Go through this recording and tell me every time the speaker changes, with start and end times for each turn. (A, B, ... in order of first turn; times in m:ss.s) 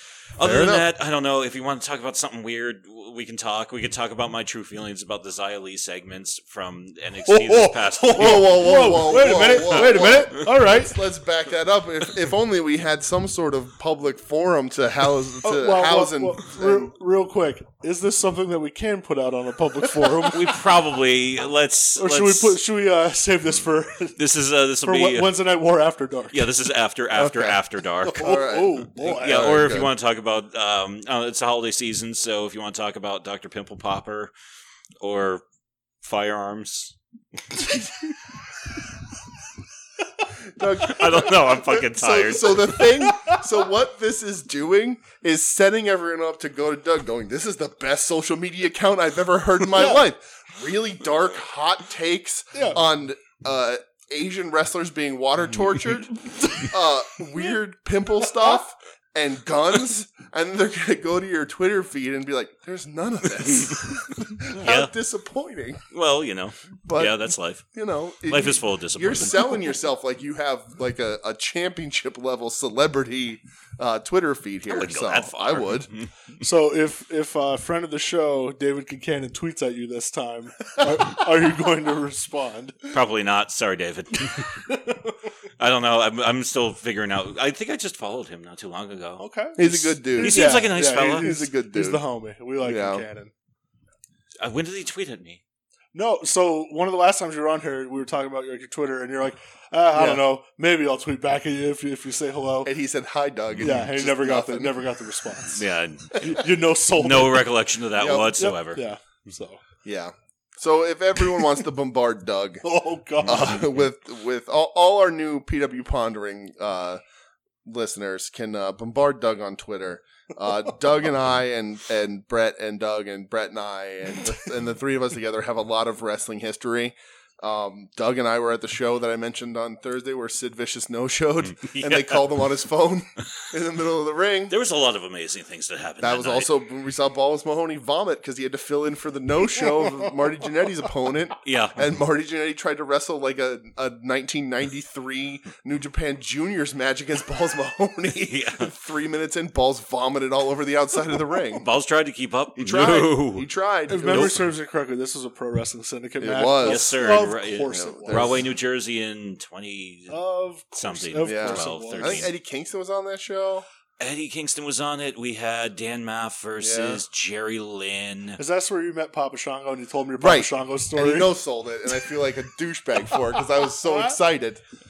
0:00.4-0:10.1 A
0:00.4-0:00.9 B
0:07.3-0:11.0 C
0:08.2-0:16.9 B
0:15.4-0:20.6 C
0:20.3-0:22.6 A
0:22.0-0:24.2 C
0:24.2-0:25.4 A
0:24.8-0:26.5 C
0:26.3-0:28.3 A
0:27.2-0:29.9 B
0:28.1-0:29.7 C
0:29.0-0:34.3 A
0:35.0-0:35.4 A
0:36.0-0:38.1 A
0:40.5-1:05.8 B
0:40.8-0:42.9 A
0:43.0-0:43.4 C
0:52.5-0:52.8 C
1:03.5-1:04.0 A
1:04.5-1:04.9 A
1:05.9-1:07.6 A
1:06.8-1:15.9 B
1:08.3-1:09.7 A
1:14.7-1:16.4 A
1:16.4-1:22.8 C
1:22.9-1:24.7 A
1:24.7-1:25.1 C
1:25.6-1:31.4 A
1:29.2-1:33.3 C
1:29.6-1:32.0 B
1:32.6-1:33.1 B
1:34.4-1:35.4 A
1:35.9-1:42.7 C
1:39.9-1:40.2 B
1:42.6-1:44.9 B
1:43.6-1:47.6 C
1:45.5-1:46.3 A
1:47.0-1:48.8 A
1:48.0-1:48.4 B
1:48.2-1:49.6 C
1:49.8-1:52.6 B
1:52.6-1:53.7 C
1:53.2-1:57.0 B
1:57.6-2:14.5 B
2:11.5-2:12.3 A
2:14.5-2:16.5 A
2:16.0-2:31.7 B
2:21.4-2:21.8 A
2:28.3-2:28.7 A
2:31.6-2:33.5 A
2:32.6-2:34.5 B
2:33.9-2:38.4 C
2:34.0-2:34.4 A
2:36.2-2:37.1 B
2:36.6-2:40.2 A
2:37.7-2:38.4 B
2:40.1-2:42.3 C
2:40.8-2:42.3 A
2:41.2-2:43.7 B
2:44.0-2:48.4 A
2:46.6-2:47.0 B
2:48.4-2:51.3 C
2:50.2-2:54.6 B
2:53.1-2:54.2 C